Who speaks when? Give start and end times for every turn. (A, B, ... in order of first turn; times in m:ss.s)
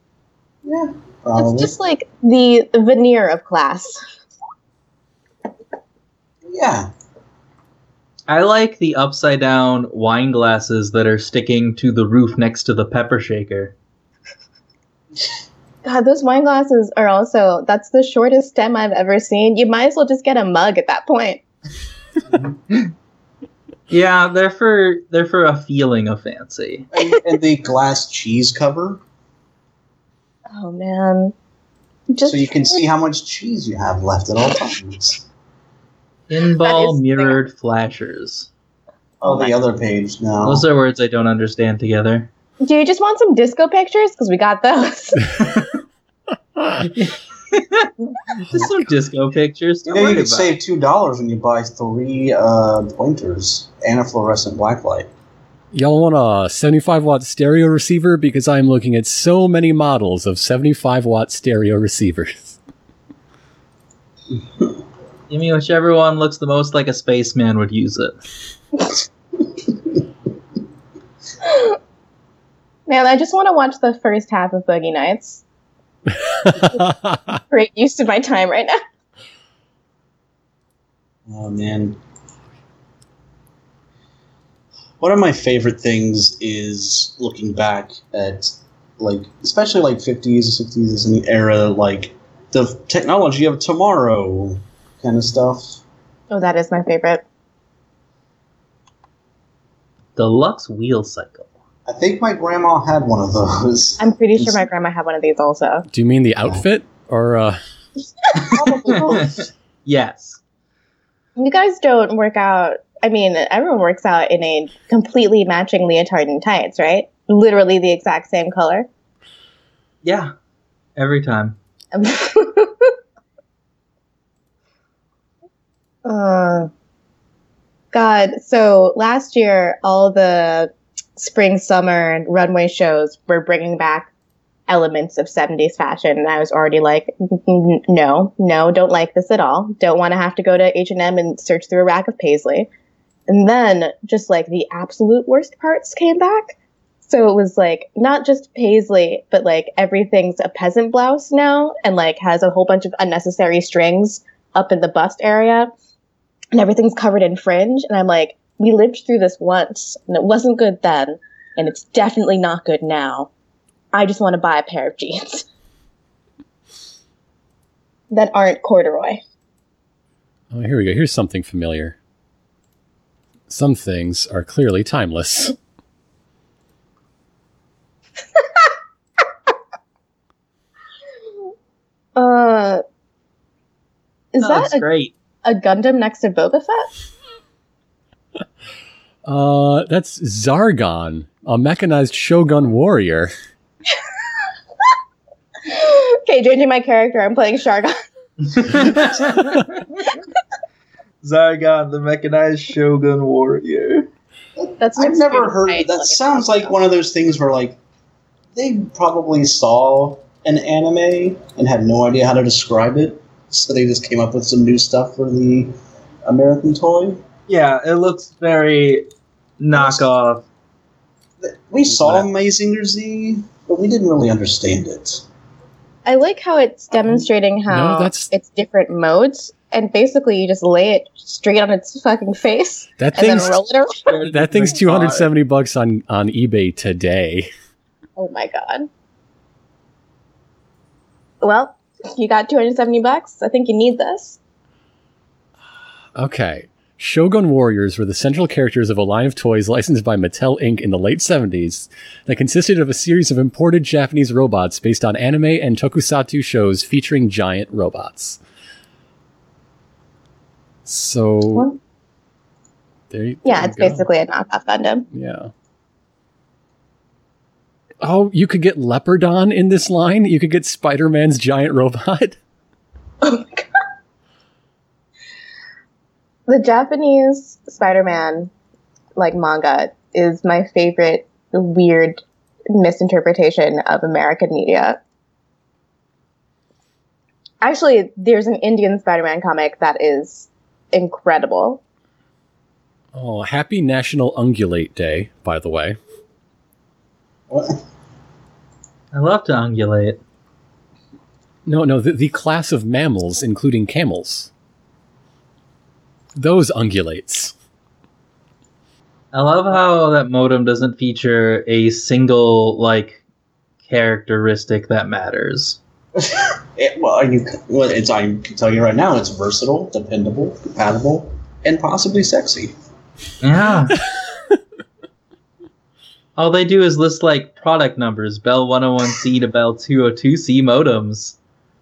0:00.6-0:01.7 A
0:01.4-0:04.0 B
0:06.4-0:06.9 A
0:08.3-0:13.7 C
0:15.8-0:21.4 B
0:22.3-0:22.6 A
0:23.9-0:26.9 C
0:26.9-0:29.0 A
0:30.5-0:31.3 B
0:32.1-0:32.8 B
0:32.3-0:35.2 A
0:36.3-0:38.5 C
0:36.6-0:37.4 B
0:39.2-0:39.5 B
0:39.2-0:40.6 A
0:40.4-0:42.3 C
0:42.6-0:45.4 B
0:46.6-0:46.8 D
0:46.8-0:50.5 C
0:49.9-0:55.1 A
0:55.7-1:02.6 D
1:05.3-1:08.1 C
1:11.4-1:11.8 B
1:12.9-1:15.4 B
1:16.2-1:17.4 D
1:17.5-1:18.8 B
1:21.3-1:22.0 A
1:25.0-1:35.8 A
1:36.3-1:37.2 B
1:40.2-1:41.5 C
1:41.9-1:44.6 A
1:44.0-1:45.8 B
1:45.9-1:47.6 D
1:48.3-1:49.2 B
1:48.4-1:49.5 A
1:49.1-1:50.4 C
1:51.4-1:58.9 B
2:00.0-2:00.3 C
2:01.0-2:01.6 C
2:01.9-2:02.9 B
2:06.0-2:06.7 B
2:07.9-2:14.1 B
2:14.7-2:22.7 B
2:23.3-2:35.7 B
2:36.5-2:43.3 B
2:43.9-2:45.4 B
2:48.1-2:49.2 B
2:50.5-2:52.0 D
2:53.5-2:55.6 D
3:02.2-3:02.8 B
3:04.3-3:04.8 B
3:04.4-3:05.1 C
3:05.4-3:06.9 B
3:09.2-3:13.3 D
3:15.7-3:17.9 B
3:18.6-3:20.1 C
3:21.2-3:24.1 C
3:24.6-3:27.8 A
3:24.8-3:26.7 B
3:28.5-3:37.2 A
3:37.5-3:39.1 C
3:39.6-3:40.4 C
3:39.7-3:40.1 A
3:41.4-3:45.2 A
3:46.0-3:54.1 B
3:47.7-3:48.3 D
3:53.0-3:53.6 D
3:54.0-3:55.3 C
3:54.2-3:57.5 D
3:58.2-3:58.9 B
4:01.4-4:04.4 B
4:06.1-4:18.4 D
4:20.8-4:21.7 D
4:23.1-4:24.0 D
4:23.4-4:25.0 B
4:25.1-4:25.5 D
4:28.0-4:32.4 D
4:33.2-4:33.7 B
4:36.5-4:38.5 B
4:39.2-4:45.0 B
4:47.6-4:51.8 B
4:53.1-4:56.0 D
4:57.5-4:57.8 A
4:59.1-5:00.2 C
5:01.6-5:04.5 D
5:06.4-5:07.5 D
5:09.3-5:13.2 C
5:13.8-5:15.8 C
5:16.2-5:22.7 A
5:23.4-5:24.0 C
5:26.4-5:31.4 C